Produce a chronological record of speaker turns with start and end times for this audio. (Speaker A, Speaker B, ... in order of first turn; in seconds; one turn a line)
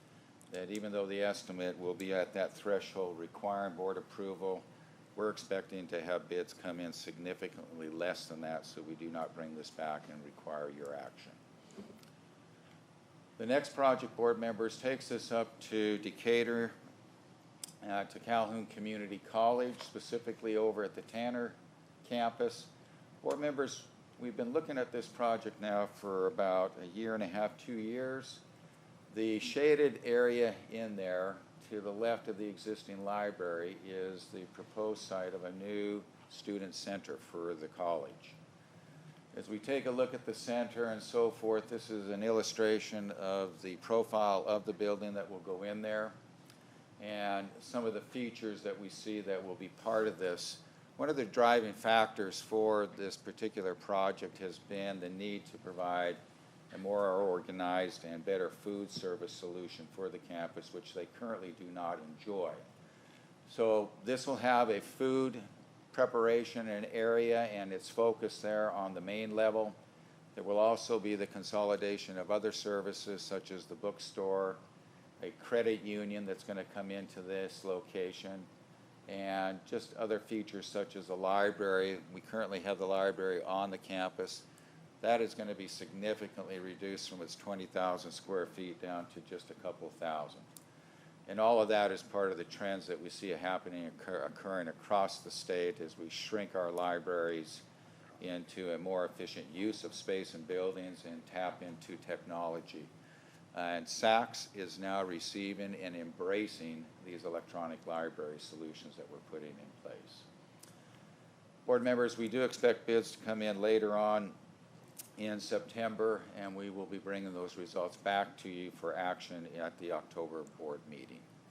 Speaker A: 0.5-11.4
Speaker A: 13.4-16.7
Speaker A: 17.8-22.7
Speaker A: 23.2-28.4
Speaker A: 29.1-38.4
Speaker A: 39.3-46.1
Speaker A: 47.0-56.2
Speaker A: 56.7-62.6
Speaker A: 63.5-69.8
Speaker A: 70.3-74.6
Speaker A: 75.2-78.5
Speaker A: 79.1-84.5
Speaker A: 85.0-90.5
Speaker A: 91.3-97.6
Speaker A: 98.2-102.9
Speaker A: 103.5-110.3
Speaker A: 111.7-114.3
Speaker A: 115.2-121.2